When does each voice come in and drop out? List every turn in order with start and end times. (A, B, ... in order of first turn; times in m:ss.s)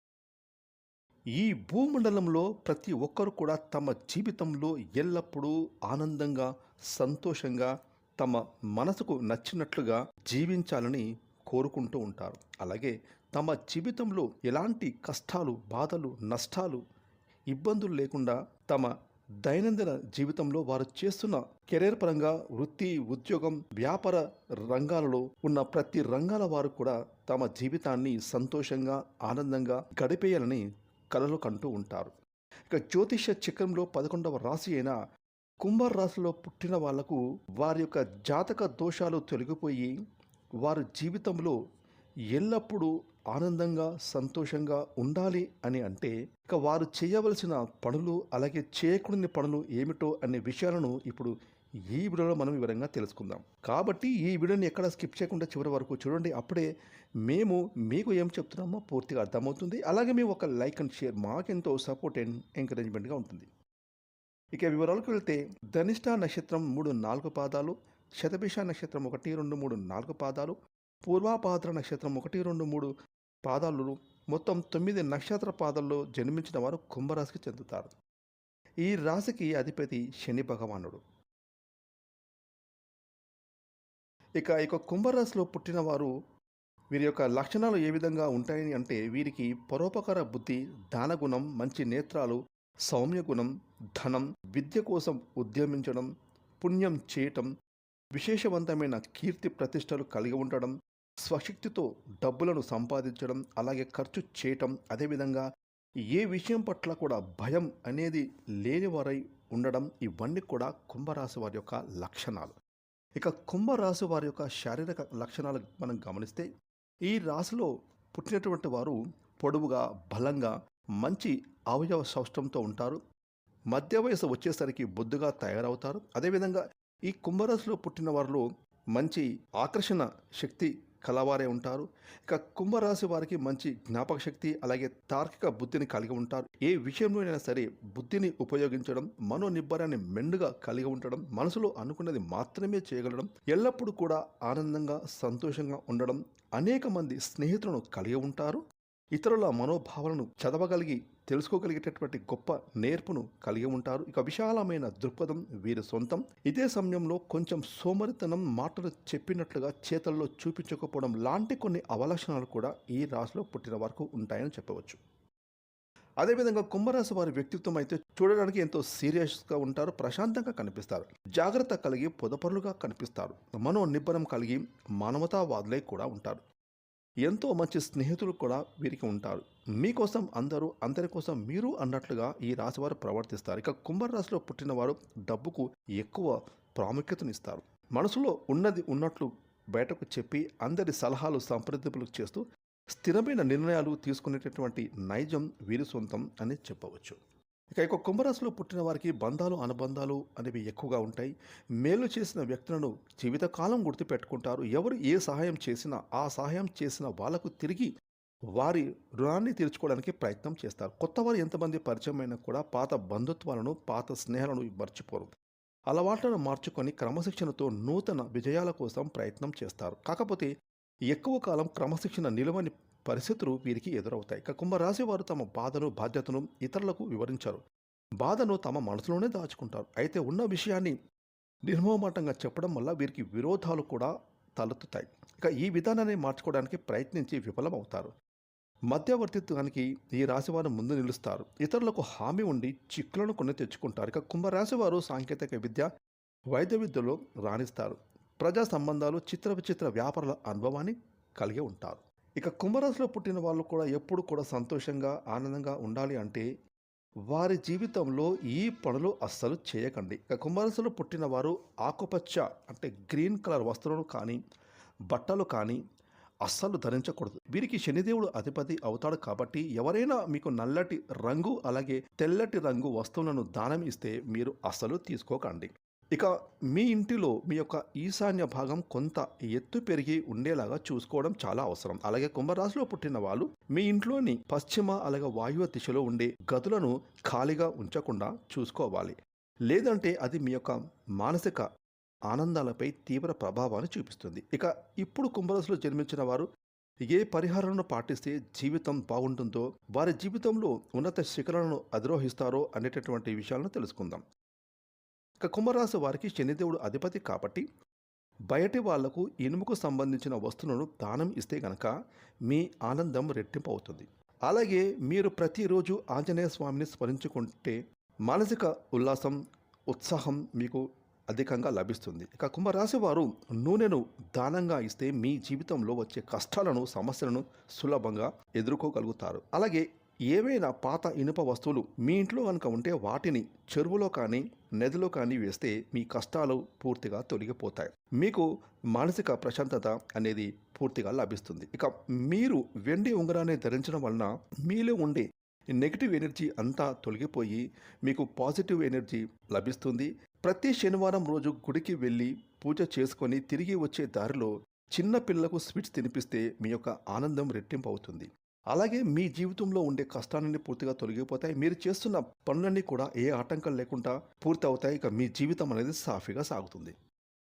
0:01.4-0:16.8 A
0:17.5-0:18.9 A
0:19.4-0:32.1 A
0:32.7-0:34.9 A
0:35.6-0:39.9 A
0:40.6-0:41.6 A
0:42.3-0:51.3 A
0:51.9-0:56.7 A
0:57.2-1:03.5 A
1:04.5-1:10.6 A
1:11.1-1:12.9 A
1:13.4-1:17.9 A
1:18.8-1:21.0 A
1:24.4-1:26.1 A
1:26.9-1:36.1 A
1:36.6-1:37.5 A
1:38.2-1:45.4 A
1:46.1-1:52.5 A
1:53.2-1:56.4 A
1:57.1-2:03.0 A
2:03.7-2:28.6 A
2:29.2-2:45.0 A
2:46.2-2:56.4 A
2:57.2-3:17.2 A
3:17.8-3:21.3 A
3:21.8-3:27.9 A
3:28.6-3:35.3 A
3:35.9-3:40.5 A
3:41.1-3:47.6 A
3:48.2-3:50.9 A
3:51.7-3:58.1 A
3:58.9-4:05.9 A
4:06.5-4:16.4 A
4:17.3-4:24.4 A
4:25.1-4:25.8 A
4:26.4-4:49.2 A
4:49.7-4:51.6 A
4:52.3-4:56.5 A
4:57.1-5:04.2 A
5:05.4-5:07.6 A
5:08.5-5:11.9 A
5:12.4-5:19.4 A
5:19.9-5:45.2 A
5:45.8-6:06.9 A